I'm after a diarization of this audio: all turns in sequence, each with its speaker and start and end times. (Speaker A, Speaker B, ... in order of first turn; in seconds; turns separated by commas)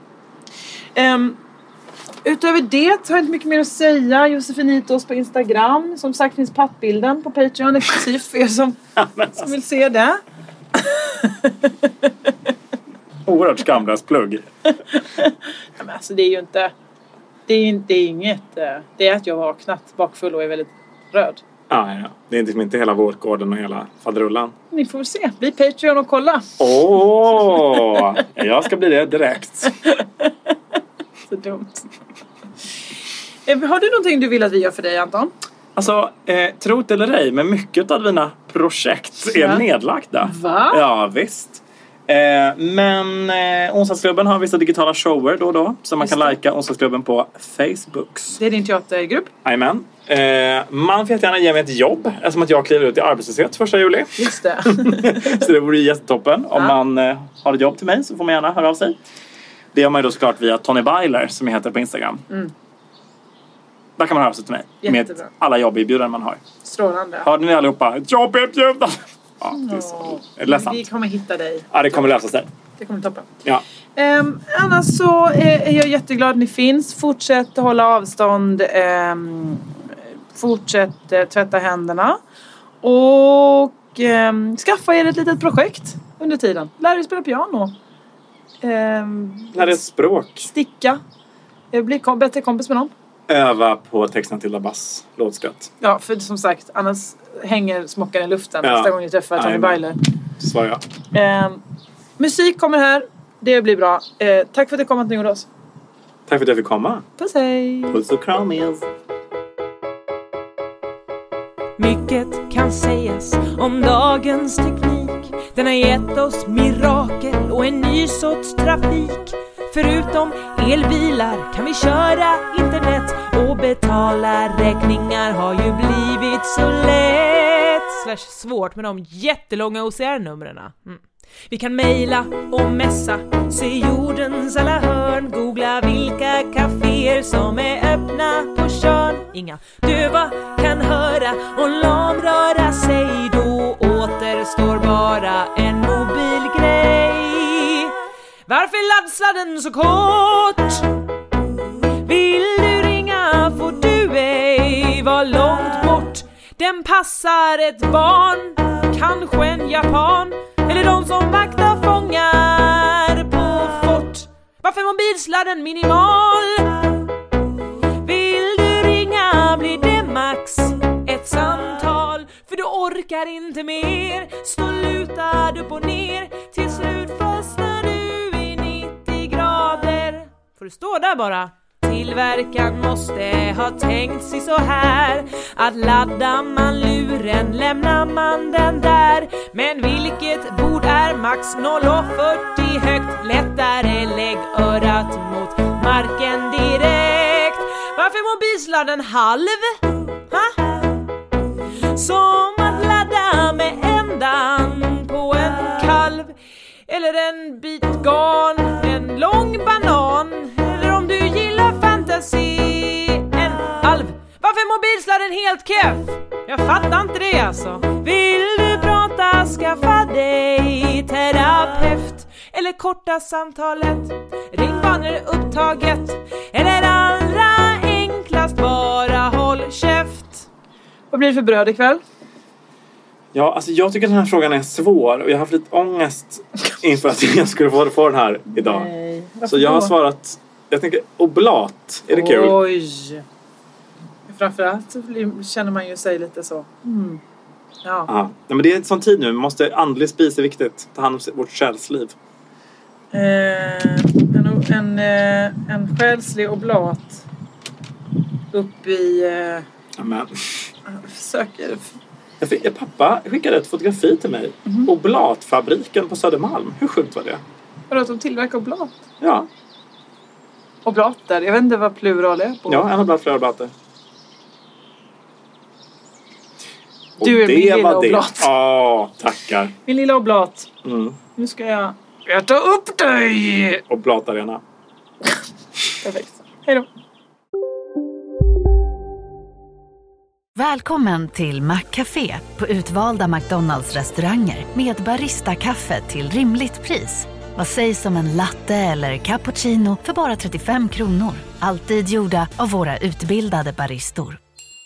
Speaker A: 0.9-1.4, Speaker A: 2.2-10.2, Speaker B: 9.0-9.5, Speaker A: 10.8-11.9, Speaker B: 13.2-14.4, Speaker A: 14.7-16.7, Speaker A: 17.5-21.4, Speaker B: 21.7-24.5, Speaker A: 24.7-26.5, Speaker B: 26.6-29.7, Speaker A: 27.1-28.1, Speaker A: 29.7-30.3, Speaker A: 31.3-31.9, Speaker A: 33.5-35.3, Speaker B: 35.8-48.4, Speaker A: 39.3-39.6, Speaker A: 40.2-40.8, Speaker A: 46.0-46.4, Speaker A: 48.4-49.3, Speaker B: 49.4-59.0, Speaker A: 54.2-55.4, Speaker B: 59.7-62.2, Speaker B: 64.0-66.4, Speaker A: 64.8-65.3, Speaker A: 66.6-67.3, Speaker B: 67.2-70.8, Speaker A: 69.5-72.0, Speaker B: 71.7-72.5, Speaker A: 72.8-73.3, Speaker A: 74.0-79.7, Speaker A: 80.3-82.2, Speaker A: 82.8-87.7, Speaker A: 88.6-89.8, Speaker B: 89.5-90.5, Speaker A: 90.5-91.0, Speaker A: 91.7-92.9, Speaker B: 93.3-95.7, Speaker A: 95.8-100.0, Speaker B: 98.6-99.8, Speaker B: 100.4-100.8, Speaker A: 101.1-101.6, Speaker A: 102.2-105.5, Speaker B: 106.3-107.0, Speaker A: 107.2-108.0, Speaker B: 107.9-108.8, Speaker C: 111.8-147.9, Speaker C: 148.5-150.9, Speaker C: 152.0-166.8, Speaker C: 168.0-200.6, Speaker C: 201.9-206.3, Speaker C: 206.9-230.4, Speaker A: 231.1-232.0, Speaker B: 233.3-238.9, Speaker A: 238.5-239.9, Speaker B: 239.4-242.6, Speaker A: 242.1-243.2, Speaker A: 244.3-247.2, Speaker A: 247.8-248.1, Speaker B: 248.1-252.1, Speaker A: 253.1-257.2, Speaker A: 258.5-259.6, Speaker B: 260.0-260.4, Speaker A: 260.9-261.9, Speaker B: 262.4-267.4, Speaker A: 267.9-268.9, Speaker B: 269.2-269.5, Speaker A: 270.8-272.9, Speaker B: 272.7-273.7, Speaker B: 277.2-279.7, Speaker A: 277.2-278.5, Speaker A: 279.9-280.7, Speaker B: 280.8-281.2, Speaker A: 281.4-283.8, Speaker B: 283.9-284.6, Speaker A: 286.0-286.9, Speaker D: 290.5-304.4